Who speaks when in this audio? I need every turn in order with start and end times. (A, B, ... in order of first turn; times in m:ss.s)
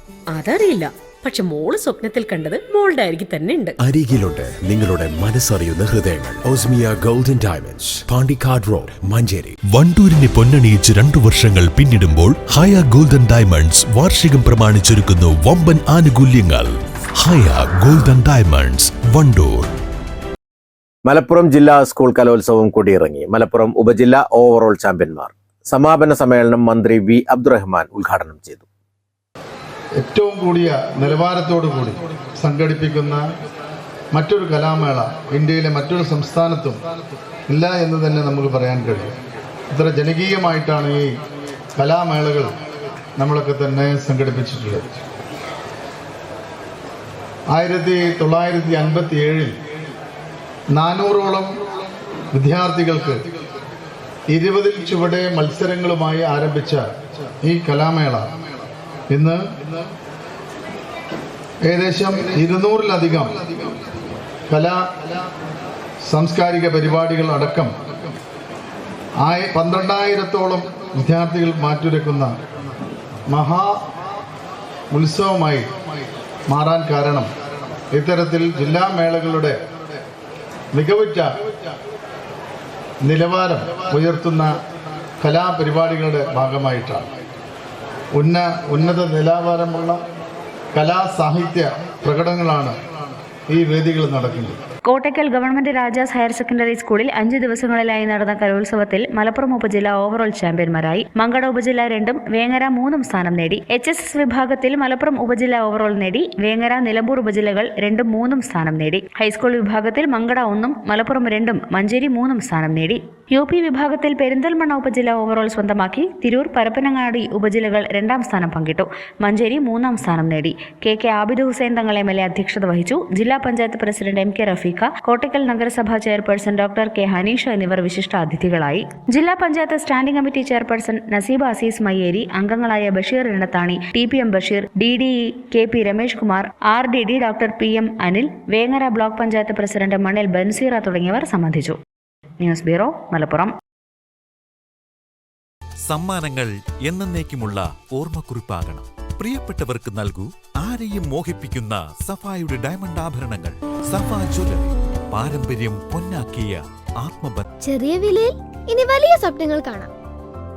0:00.3-0:03.8 A
0:03.8-0:09.6 B
0:09.7-0:19.7 C
0:21.0-0:28.6 D
0:30.0-0:33.2 E
0:34.1-0:36.8 E
0:37.5-0:39.1 E
0:39.7-0:41.1 E
0:41.8-0:42.6 E
0:43.2-0:44.8 E
0:47.5-0:49.5 E
0:50.7-0:51.5 E
0:52.3-0:53.2 E
0:54.3-0:56.9 E
0:57.4-0:58.2 E
0:59.1-0:59.4 E
1:01.6-1:03.3 E
1:04.5-1:04.8 E
1:06.0-1:07.7 E
1:09.2-1:12.3 E
1:13.3-1:13.8 E
1:14.9-1:15.7 E
1:16.5-1:17.3 E
1:17.9-1:19.6 E
1:20.7-1:21.3 E
1:23.0-1:24.6 E
1:25.2-1:27.1 E
1:28.2-1:30.0 E
1:30.7-1:32.8 E
1:33.5-1:34.6 E
1:34.9-2:21.8 F
2:22.4-2:23.5 F
2:25.9-2:37.5 G
2:37.6-2:39.9 H